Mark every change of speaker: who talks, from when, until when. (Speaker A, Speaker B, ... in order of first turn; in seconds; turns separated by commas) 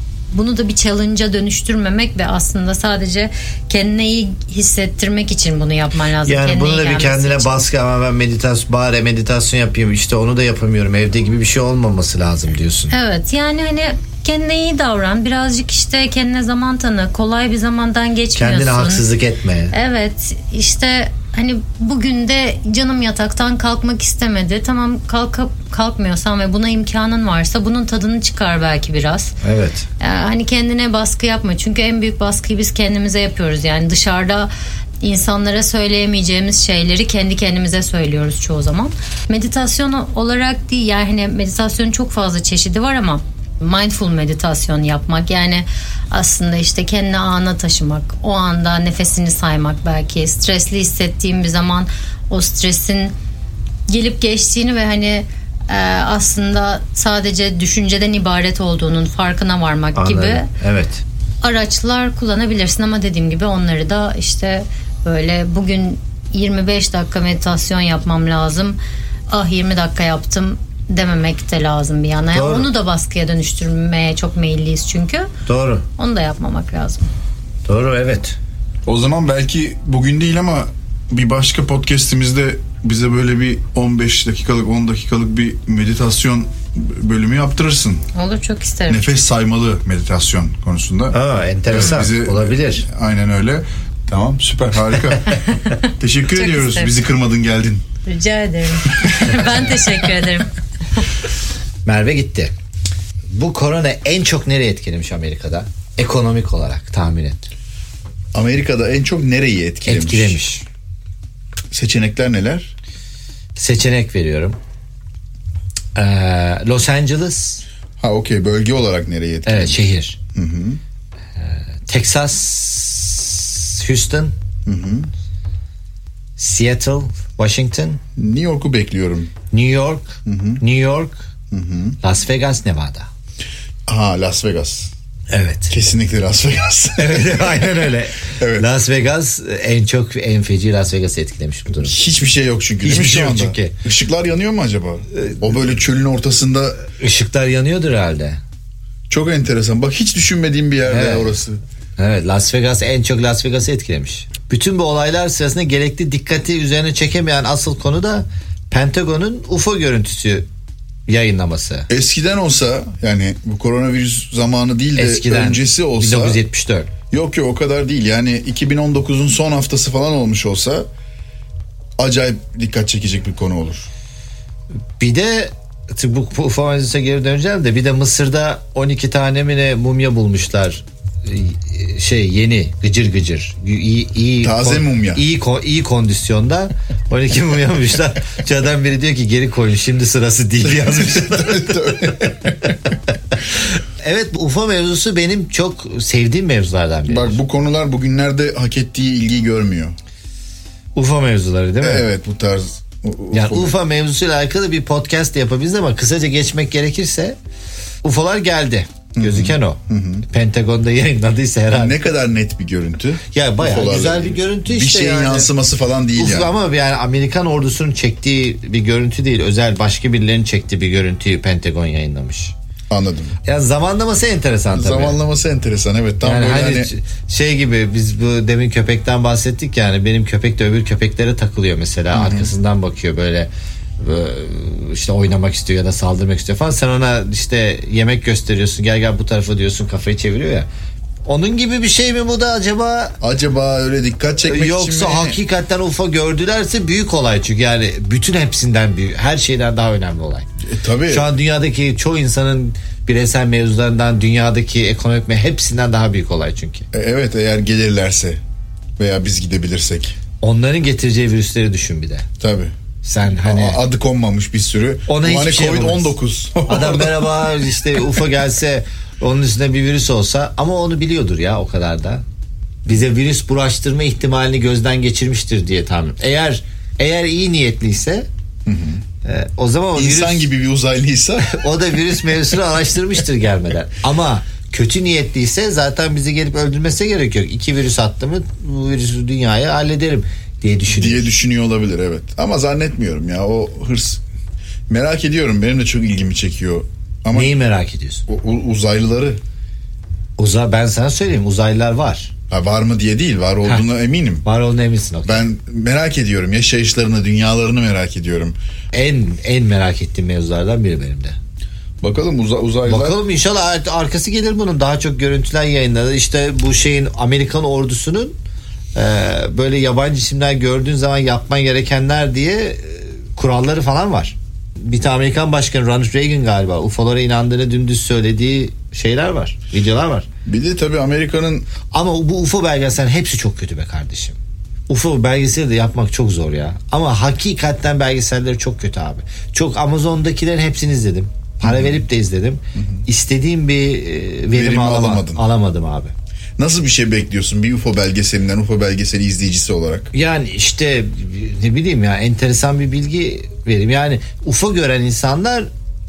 Speaker A: 0.3-7.7, Speaker B: 6.2-12.9, Speaker A: 12.9-19.0, Speaker B: 18.4-19.7, Speaker A: 19.7-29.4, Speaker B: 29.4-29.9, Speaker A: 30.0-34.5, Speaker A: 35.0-53.1, Speaker A: 53.9-60.5, Speaker B: 59.9-61.0, Speaker A: 61.4-68.8, Speaker A: 69.3-75.3, Speaker B: 72.3-72.7, Speaker B: 75.5-75.8, Speaker A: 76.0-77.1, Speaker B: 77.7-78.4, Speaker C: 78.8-88.0, Speaker A: 88.1-89.1, Speaker C: 88.9-91.1, Speaker B: 91.1-92.8, Speaker C: 91.7-95.4, Speaker A: 95.5-96.9, Speaker C: 96.0-97.8, Speaker A: 98.0-101.0, Speaker B: 101.8-102.5, Speaker B: 103.3-107.5, Speaker C: 108.3-110.4, Speaker B: 109.8-110.6, Speaker C: 111.7-112.7, Speaker B: 113.5-114.6, Speaker B: 115.9-117.6, Speaker C: 118.0-120.8, Speaker B: 119.5-120.2, Speaker B: 121.4-124.3, Speaker C: 124.7-125.1, Speaker B: 126.4-128.0, Speaker C: 128.2-129.3, Speaker B: 129.5-131.2, Speaker C: 130.2-130.6, Speaker C: 131.5-131.9, Speaker B: 132.0-133.1, Speaker C: 133.9-134.9, Speaker B: 135.3-135.7, Speaker C: 135.7-138.7, Speaker B: 137.0-141.9, Speaker C: 141.8-146.8, Speaker B: 142.8-143.8, Speaker B: 145.1-145.4, Speaker B: 147.0-148.4, Speaker C: 149.1-151.6, Speaker B: 150.8-151.3, Speaker B: 152.0-160.5, Speaker B: 161.1-161.9, Speaker C: 161.9-166.4, Speaker B: 165.0-166.9, Speaker C: 167.1-170.8, Speaker C: 172.0-173.9, Speaker B: 175.0-192.7, Speaker C: 184.4-185.2, Speaker C: 190.6-192.7, Speaker B: 193.6-197.4, Speaker C: 197.1-199.9, Speaker B: 200.9-202.1, Speaker C: 201.8-203.8, Speaker B: 203.3-207.4, Speaker B: 208.0-212.0, Speaker C: 209.2-210.2, Speaker C: 211.7-216.5, Speaker B: 213.3-215.5, Speaker B: 216.2-222.5, Speaker C: 222.9-223.3, Speaker B: 223.4-225.2, Speaker C: 224.7-226.9, Speaker B: 226.2-240.7, Speaker C: 232.1-232.5, Speaker B: 241.2-243.2, Speaker C: 243.2-245.4, Speaker B: 244.5-250.5, Speaker C: 250.6-251.3, Speaker B: 251.1-256.9, Speaker C: 256.9-258.4, Speaker C: 259.0-260.1, Speaker B: 260.4-262.3, Speaker C: 262.4-262.7, Speaker B: 263.0-263.8, Speaker C: 263.4-267.3, Speaker B: 265.1-266.1, Speaker B: 266.6-272.2, Speaker B: 272.9-278.3, Speaker C: 278.6-279.0, Speaker B: 279.2-280.5, Speaker C: 279.9-281.6, Speaker B: 281.4-291.3, Speaker C: 290.9-294.2, Speaker C: 294.9-297.5, Speaker B: 297.3-298.2, Speaker C: 298.3-299.4, Speaker B: 300.4-302.3, Speaker C: 302.5-304.4, Speaker B: 304.4-305.4, Speaker C: 305.2-308.5, Speaker B: 308.9-311.4, Speaker C: 312.0-313.2, Speaker B: 312.8-318.3, Speaker B: 318.9-330.3, Speaker C: 330.4-331.7, Speaker B: 331.9-334.4, Speaker B: 334.9-346.1, Speaker C: 341.6-342.0, Speaker C: 344.5-345.4, Speaker C: 346.6-350.1, Speaker B: 350.1-355.7